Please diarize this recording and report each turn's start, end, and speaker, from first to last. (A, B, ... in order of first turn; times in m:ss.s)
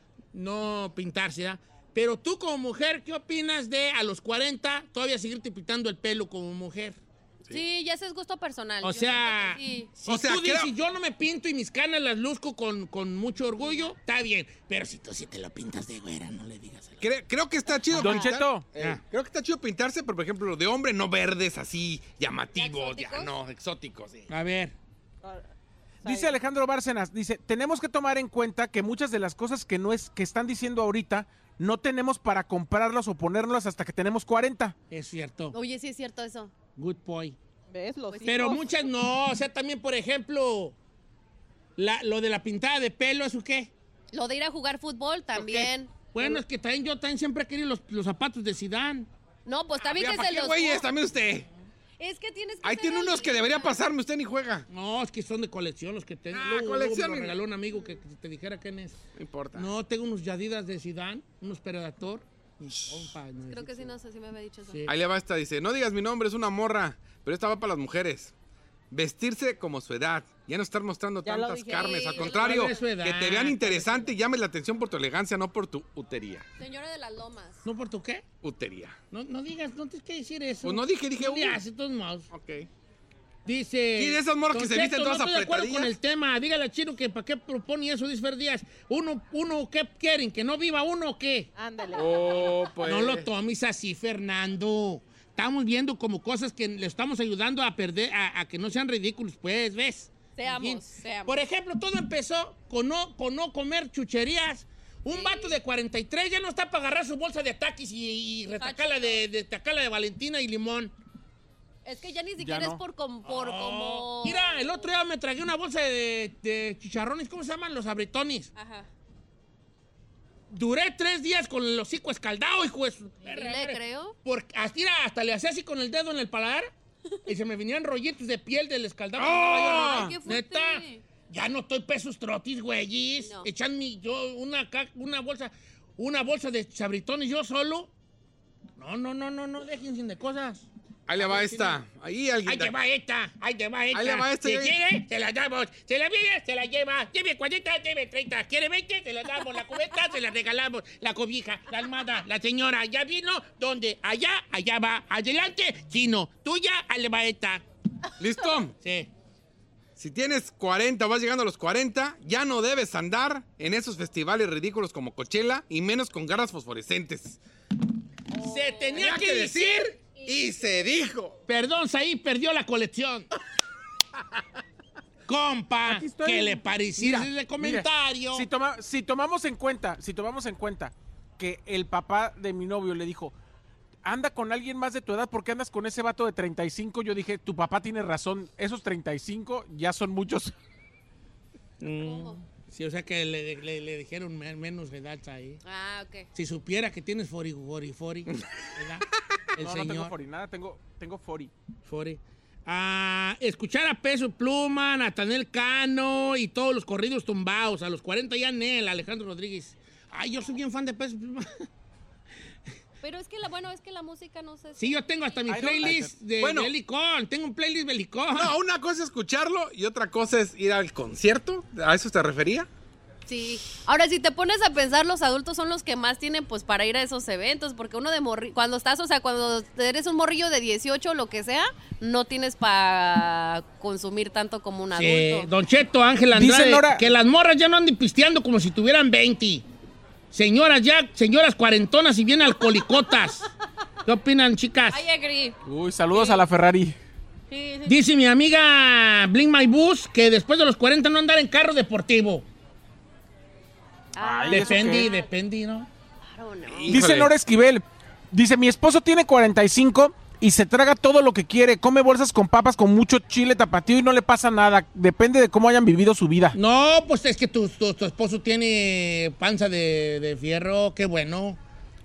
0:00.3-0:07.0 A
0:07.5-0:09.9 B
0:08.8-0:17.0 A
0:10.1-0:10.7 C
0:13.6-0:13.9 B
0:17.0-0:24.3 C
0:18.0-0:18.7 D
0:18.8-0:19.0 A
0:22.6-0:23.3 B
0:24.3-0:24.8 A
0:26.0-0:26.4 E
0:26.0-0:34.8 D
0:34.9-0:35.6 A
0:35.5-0:36.5 B
0:36.8-0:37.4 A
0:37.7-0:38.7 E
0:38.2-0:40.8 A
0:41.8-0:43.7 A
0:44.1-0:46.0 B
0:45.4-0:45.7 C
0:46.1-0:49.1 A
0:49.5-0:50.9 B
0:49.8-0:51.5 C
0:52.0-0:53.8 B
0:52.6-0:54.7 C
0:54.7-0:59.0 A
0:56.3-0:57.4 C
0:59.2-0:59.7 C
0:59.5-1:03.9 A
1:03.5-1:04.8 B
1:04.9-1:08.3 C
1:08.9-1:16.4 C
1:11.2-1:12.1 E
1:11.7-1:12.7 B
1:12.2-1:14.1 A
1:16.6-1:17.6 B
1:17.6-1:18.2 A
1:18.4-1:19.0 C
1:19.1-1:22.3 A
1:20.6-1:21.6 C
1:22.3-1:22.7 C
1:23.4-1:31.5 A
1:24.0-1:25.9 C
1:31.6-1:32.5 E
1:31.9-1:33.3 C
1:32.8-1:50.9 A
1:40.4-1:41.4 B
1:45.1-1:45.6 B
1:48.6-1:49.2 B
1:51.8-1:54.9 B
1:52.4-1:52.8 D
1:53.2-1:58.5 A
1:58.6-1:58.9 B
2:00.5-2:06.7 A
2:03.2-2:04.2 B
2:07.3-2:17.9 A
2:09.2-2:10.2 C
2:09.5-2:11.0 B
2:13.2-2:13.5 B
2:18.8-2:21.8 A
2:21.1-2:22.7 C
2:22.4-2:37.6 A
2:23.9-2:24.8 C
2:38.2-2:38.7 C
2:38.8-2:39.1 A
2:40.0-2:47.4 C
2:48.3-2:49.1 B
2:48.3-2:49.9 A
2:49.0-2:51.4 C
2:50.0-2:50.4 B
2:51.5-2:53.3 A
2:55.3-2:58.5 A
2:55.9-3:03.3 D
3:04.0-3:10.5 D
3:11.8-3:15.6 A
3:11.9-3:12.4 B
3:15.6-3:16.3 B
3:16.3-3:20.1 A
3:19.6-3:21.5 D
3:21.9-3:31.5 A
3:33.0-3:35.8 B
3:34.8-3:38.5 A
3:35.5-3:36.1 D
3:36.4-3:36.7 C
3:38.4-3:42.7 C
3:43.3-3:55.5 B
3:54.9-3:59.7 A
3:56.3-3:57.0 D
4:00.3-4:03.5 A
4:04.1-4:05.0 A
4:04.9-4:05.6 B
4:05.7-4:07.0 D
4:06.1-4:06.4 B
4:07.5-4:08.0 B
4:07.9-4:12.5 A
4:14.2-4:15.3 B
4:14.2-4:15.1 D
4:14.5-4:15.9 A
4:16.2-4:17.0 B
4:16.7-4:17.3 C
4:16.9-4:26.6 D
4:26.5-4:31.6 A